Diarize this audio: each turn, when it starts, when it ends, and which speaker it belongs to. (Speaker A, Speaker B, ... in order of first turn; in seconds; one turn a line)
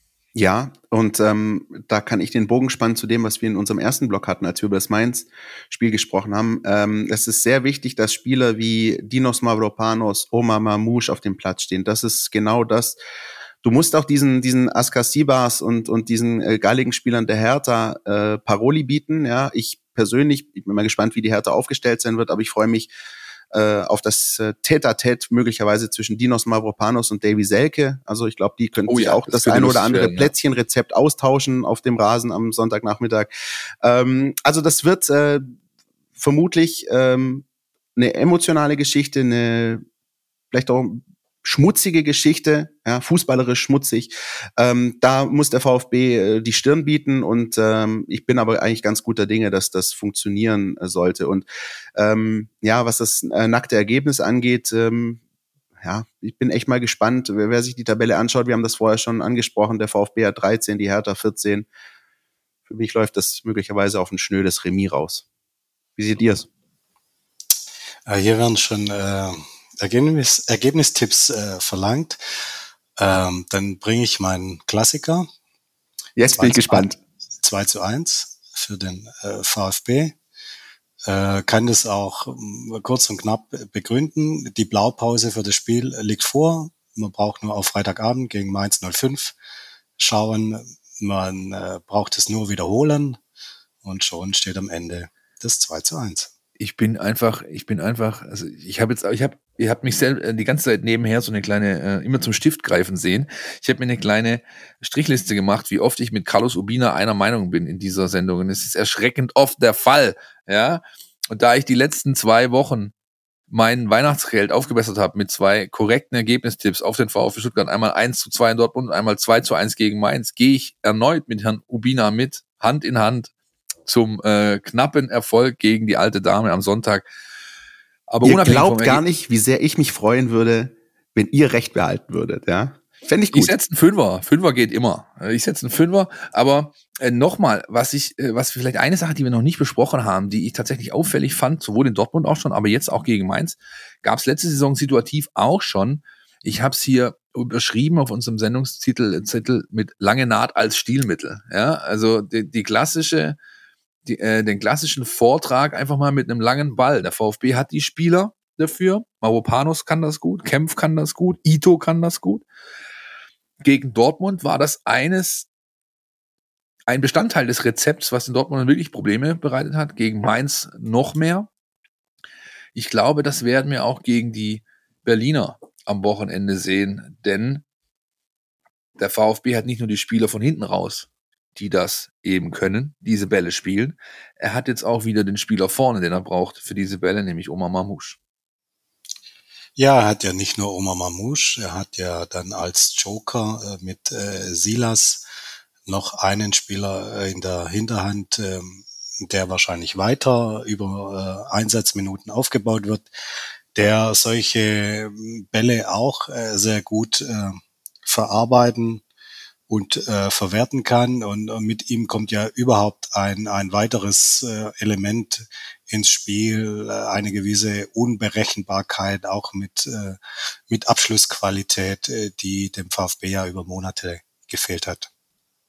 Speaker A: 0.3-13.0
Speaker A: 13.6-22.9
Speaker A: 23.5-33.3
Speaker B: 28.9-30.3
Speaker A: 33.8-35.5
Speaker A: 36.1-37.4
Speaker A: 38.0-39.8
Speaker A: 40.5-51.4
Speaker A: 52.0-55.2
Speaker A: 55.8-61.7
Speaker A: 62.7-65.2
Speaker A: 66.0-66.5
Speaker C: 68.0-72.2
Speaker C: 73.0-75.3
Speaker A: 76.2-77.0
Speaker C: 76.3-80.2
Speaker C: 81.0-89.3
Speaker C: 90.0-93.2
Speaker C: 93.8-96.3
Speaker B: 96.6-112.9
Speaker B: 113.5-123.3
Speaker B: 123.8-127.1
Speaker B: 128.1-129.0
Speaker A: 128.2-133.5
Speaker B: 133.3-153.4
Speaker B: 154.0-162.4
Speaker B: 163.6-165.5
Speaker B: 166.9-171.5
Speaker B: 172.7-177.6
Speaker B: 179.0-188.2
Speaker C: 189.8-195.2
Speaker C: 195.8-203.1
Speaker C: 203.7-209.0
Speaker C: 209.7-225.1